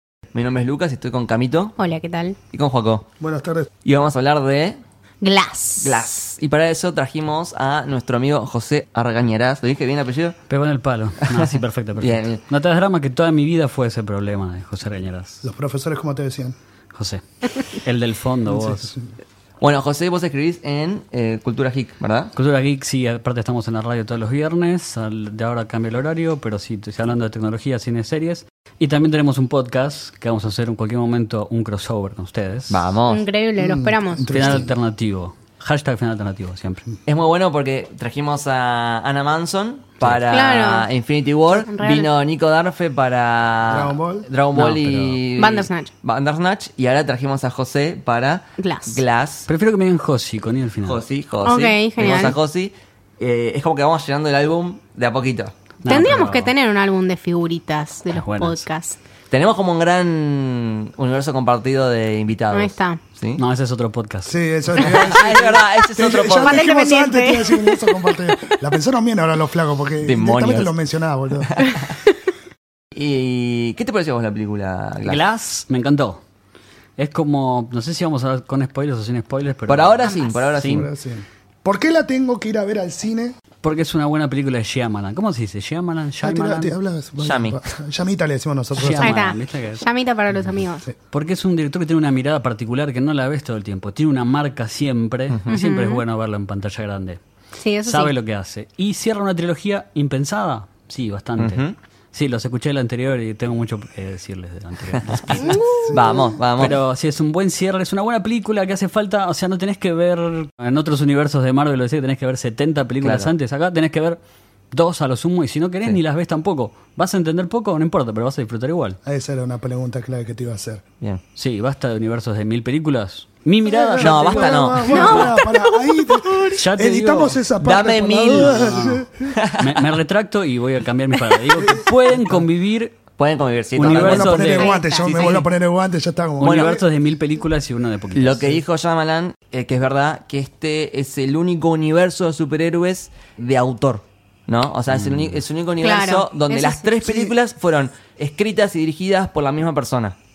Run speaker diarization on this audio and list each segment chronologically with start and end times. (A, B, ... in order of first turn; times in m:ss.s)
0:00.3-0:01.8 A
0:01.8-0:02.4 B
0:02.5-0:03.1 A
0:03.2-0:03.7 C
0:03.8-0:04.8 A
0:05.2-0:06.1 B
0:05.8-0:10.4 A
0:10.5-0:15.4 D
0:11.3-0:12.4 A
0:15.4-0:16.6 C
0:16.9-0:18.9 D
0:18.5-0:19.1 C
0:19.6-0:22.3 A
0:22.4-0:32.8 D
0:32.7-0:33.2 A
0:33.1-0:34.6 B
0:33.6-0:34.7 C
0:34.3-0:36.9 D
0:37.1-0:49.5 A
0:40.3-0:40.9 B
0:41.7-0:42.1 B
0:43.7-0:44.3 C
0:44.5-0:45.2 D
0:45.4-0:45.9 B
0:48.6-0:49.0 B
0:49.5-0:51.0 D
0:50.8-0:55.5 A
0:51.4-0:52.4 B
0:55.8-0:56.5 D
0:55.9-0:59.0 B
0:58.2-0:58.7 D
0:59.3-1:03.4 A
1:02.5-1:03.0 B
1:03.4-1:04.3 D
1:04.3-1:11.6 C
1:04.8-1:06.7 A
1:06.1-1:08.2 B
1:10.0-1:10.7 A
1:11.4-1:12.0 A
1:12.9-1:15.2 A
1:15.0-1:16.2 D
1:17.0-1:20.9 D
1:19.7-1:20.9 A
1:20.0-1:20.4 B
1:20.6-1:23.4 C
1:23.6-1:26.7 D
1:26.2-1:29.2 C
1:27.2-1:27.6 A
1:28.8-1:29.8 D
1:28.9-1:30.9 B
1:31.1-1:37.2 D
1:35.3-1:35.6 A
1:35.5-1:36.0 B
1:37.6-1:38.1 B
1:37.8-1:45.6 D
1:41.4-1:41.8 A
1:44.9-1:46.8 A
1:45.4-1:46.4 B
1:45.7-1:46.3 C
1:46.6-1:54.2 D
1:53.0-1:53.3 A
1:54.7-1:59.0 D
1:59.0-2:00.8 C
2:01.4-2:05.2 D
2:03.7-2:09.4 C
2:04.0-2:05.4 A
2:04.9-2:06.5 B
2:06.6-2:07.4 D
2:07.6-2:09.9 A
2:08.3-2:13.0 D
2:11.6-2:12.4 C
2:13.2-2:14.4 A
2:13.8-2:14.8 D
2:13.8-2:16.8 C
2:14.3-2:15.4 B
2:15.0-2:15.5 A
2:16.4-2:18.6 D
2:16.4-2:16.8 A
2:18.2-2:30.2 A
2:24.9-2:25.4 D
2:25.8-2:26.9 B
2:27.0-2:27.3 C